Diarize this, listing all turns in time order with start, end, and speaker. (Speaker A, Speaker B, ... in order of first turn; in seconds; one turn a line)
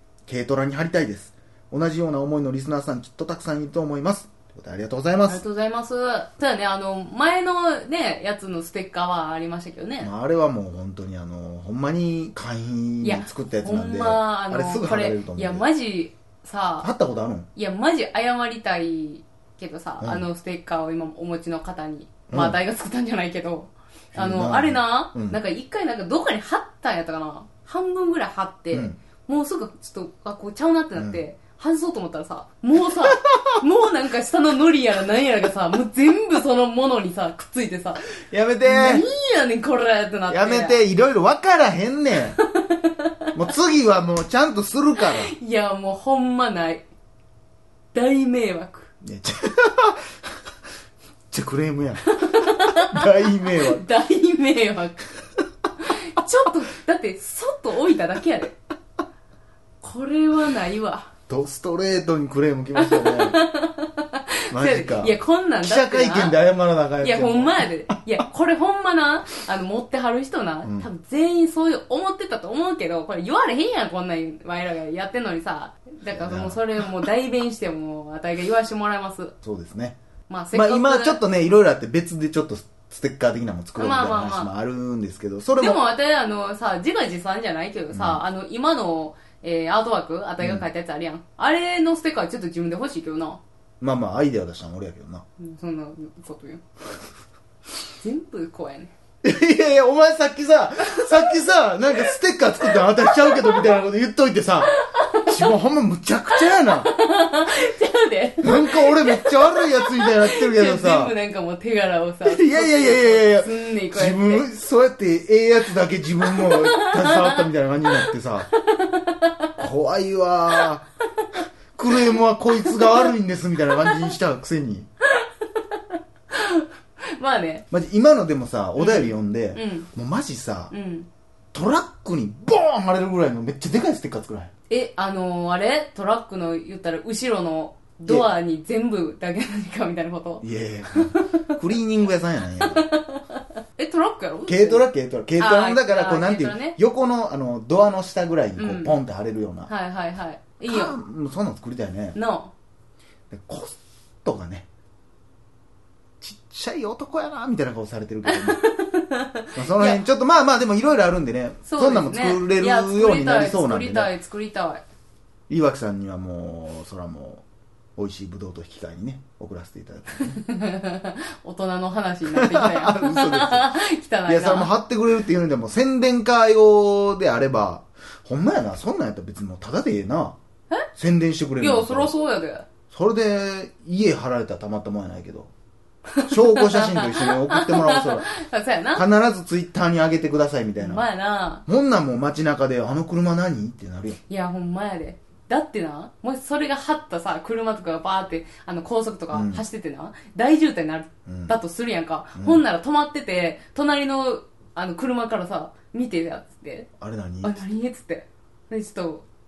Speaker A: 0.3-5.4
Speaker B: 5.2-10.1
Speaker A: 10.0-15.7
Speaker B: 13.0-16.9
Speaker A: 16.8-17.5
Speaker B: 17.5-38.1
Speaker A: 22.3-22.6
Speaker A: 24.1-25.4
Speaker A: 28.7-29.0
Speaker A: 31.0-31.2
Speaker A: 33.1-33.6
Speaker A: 38.2-39.0
Speaker B: 38.6-40.8
Speaker A: 40.3-42.4
Speaker B: 42.3-43.1
Speaker A: 43.3-45.3
Speaker B: 45.0-46.8
Speaker B: 47.9-48.9
Speaker A: 49.0-50.1
Speaker A: 51.3-53.9
Speaker B: 52.2-55.1
Speaker B: 55.8-58.6
Speaker B: 59.8-61.1
Speaker A: 61.3-63.4
Speaker B: 62.8-66.4
Speaker A: 64.5-67.9
Speaker B: 67.0-79.3
Speaker A: 76.1-76.9
Speaker A: 79.4-80.0
Speaker B: 80.3-81.2
Speaker A: 80.5-85.8
Speaker B: 83.8-84.5
Speaker B: 85.6-93.4
Speaker A: 87.9-88.2
Speaker A: 90.4-90.7
Speaker A: 93.8-95.2
Speaker B: 95.4-96.6
Speaker B: 98.0-98.9
Speaker A: 99.2-106.9
Speaker B: 102.6-103.8
Speaker B: 104.7-105.5
Speaker B: 106.3-114.5
Speaker A: 108.4-111.1
Speaker A: 112.2-118.5
Speaker B: 116.2-119.6
Speaker A: 119.6-120.8
Speaker A: 121.7-124.9
Speaker B: 122.5-123.1
Speaker B: 123.7-124.1
Speaker B: 125.1-127.7
Speaker A: 127.7-130.7
Speaker B: 128.8-129.9
Speaker B: 130.7-131.1
Speaker A: 131.5-134.5
Speaker B: 134.7-141.5
Speaker A: 140.4-142.8
Speaker B: 142.6-144.8
Speaker A: 144.5-149.7
Speaker B: 145.4-146.8
Speaker B: 148.6-148.9
Speaker B: 149.7-150.9
Speaker A: 150.7-152.2
Speaker B: 152.1-152.5
Speaker A: 153.3-154.7
Speaker A: 156.2-158.6
Speaker B: 158.3-160.0
Speaker A: 159.6-164.1
Speaker B: 161.7-164.8
Speaker A: 165.5-167.4
Speaker A: 168.0-170.4
Speaker B: 170.2-174.7
Speaker A: 172.3-180.4
Speaker A: 180.9-182.1
Speaker B: 181.6-182.7
Speaker A: 182.9-185.5
Speaker B: 186.2-189.0
Speaker A: 186.2-188.3
Speaker A: 188.9-191.1
Speaker B: 190.8-191.6
Speaker A: 191.7-194.2
Speaker B: 194.3-206.9
Speaker A: 199.3-199.6
Speaker A: 201.2-201.6
Speaker A: 202.4-202.6
Speaker A: 207.0-207.6
Speaker B: 207.4-209.2